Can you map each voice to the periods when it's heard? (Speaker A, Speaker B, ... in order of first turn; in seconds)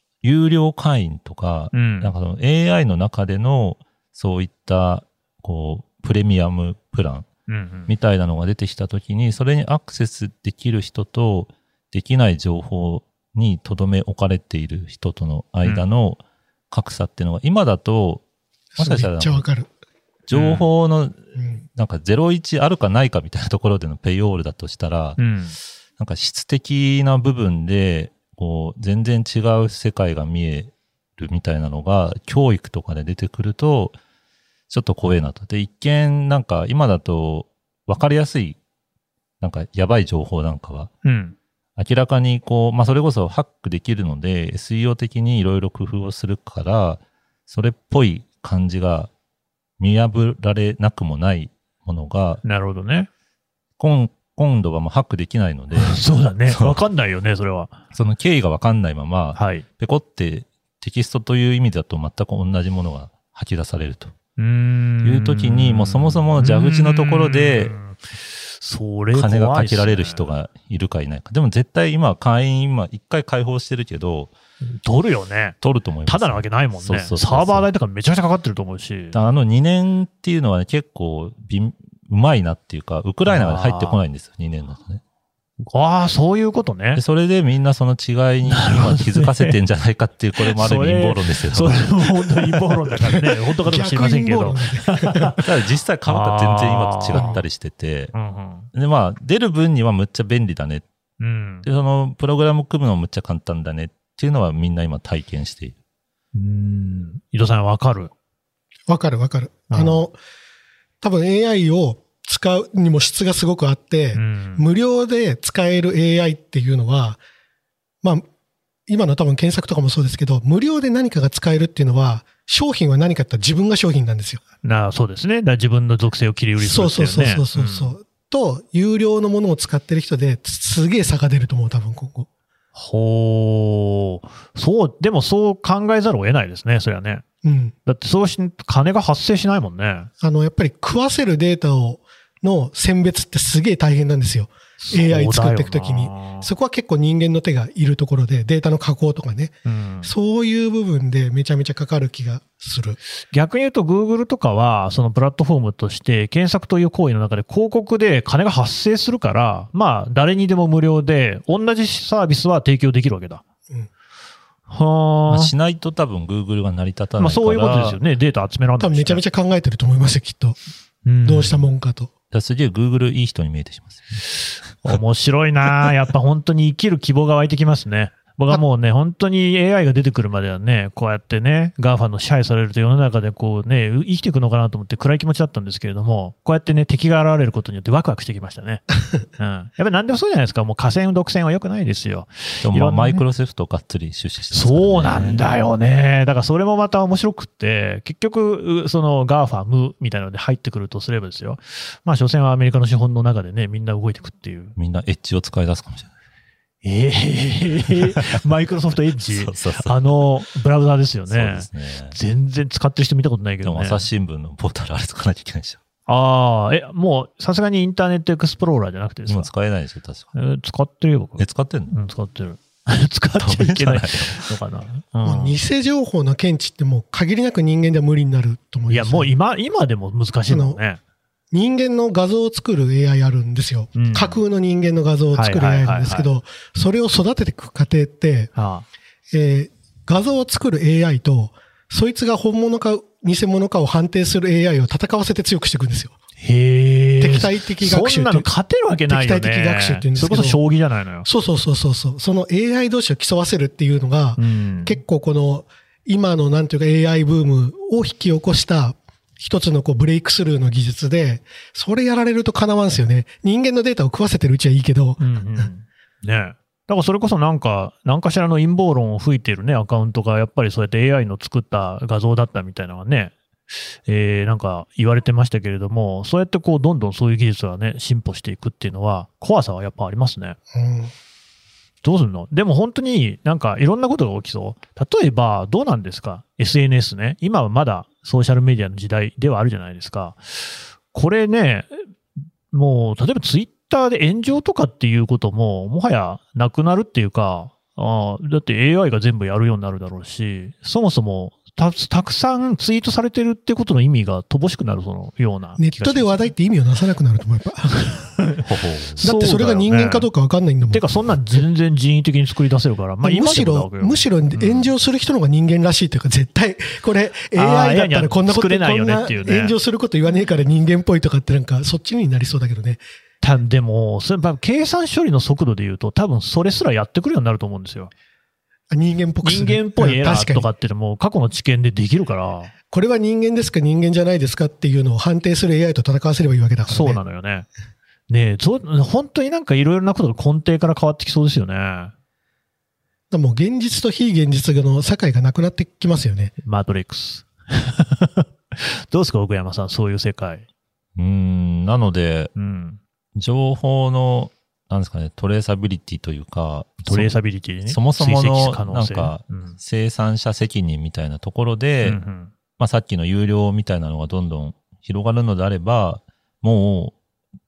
Speaker A: 0.2-7.3, 7.9-16.2, 16.7-18.2, 18.8-19.5, 20.3-21.2, 21.8-25.2, 26.0-34.0, 34.7-38.6, 39.4-40.9, 41.8-49.1, 49.8-52.4, 53.8-56.8, 57.9-64.1, 65.0-67.7, 69.1-74.3, 75.6-77.7, 79.1-85.0, 87.0-92.3, 95.4-98.1, 98.7-100.8, 101.6-105.8, 165.3-168.0, 172.3-174.2, 192.6-195.4, 204.8-206.1, 207.9-208.4, 209.3-210.1, 211.3-212.2, 213.6-215.8, 219.3-220.3, 221.4-221.9, 223.4-224.5, 308.6-309.2, 351.2-352.5, 353.4-357.3, 357.9-362.2, 362.8-367.2
Speaker B: 1.7-2.1, 7.5-7.9, 20.3-20.7, 25.2-25.6, 41.0-41.4, 52.4-53.1, 55.8-57.8, 59.4-59.6, 64.4-70.3, 74.6-79.2, 83.3-84.0, 85.6-87.0, 88.5-89.5, 90.4-95.4, 96.1-97.4, 98.1-98.7, 101.2-101.7, 106.3-108.1, 109.7-110.0, 114.2-114.7, 124.6-128.0, 132.8-137.2, 137.9-140.1, 144.8-146.5, 149.7-150.1, 153.3-163.4, 164.7-165.5, 167.2-169.2, 171.1-171.7, 174.8-193.2, 194.5-204.8, 206.8-214.1, 216.1-219.5, 220.3-225.6, 228.9-231.0, 234.0-234.4, 235.3-236.3, 238.6-238.9, 246.4-251.3, 254.4-255.0, 265.2-273.3, 274.1-280.6, 282.0-292.0, 292.7-306.5, 309.2-310.3, 310.9-314.9, 317.5-319.8, 323.4-328.1, 329.4-332.7, 336.9-337.7, 338.3-342.1, 346.6-350.6, 352.6-353.0, 357.1-359.8, 362.0-362.5
Speaker C: 18.8-19.7, 21.4-21.6, 93.6-95.3, 97.1-97.4, 108.9-110.2, 111.0-117.2, 118.9-124.4, 126.6-132.3, 137.4-137.8, 140.2-153.0, 168.8-170.6, 171.2-172.1, 225.2-229.3, 230.5-230.8, 231.5-238.5, 239.3-246.2, 247.2-248.5, 249.1-250.6, 251.2-265.7, 280.7-281.1, 305.8-308.1, 309.2-311.0, 313.2-323.0, 328.9-330.7, 332.9-337.2, 343.3-346.5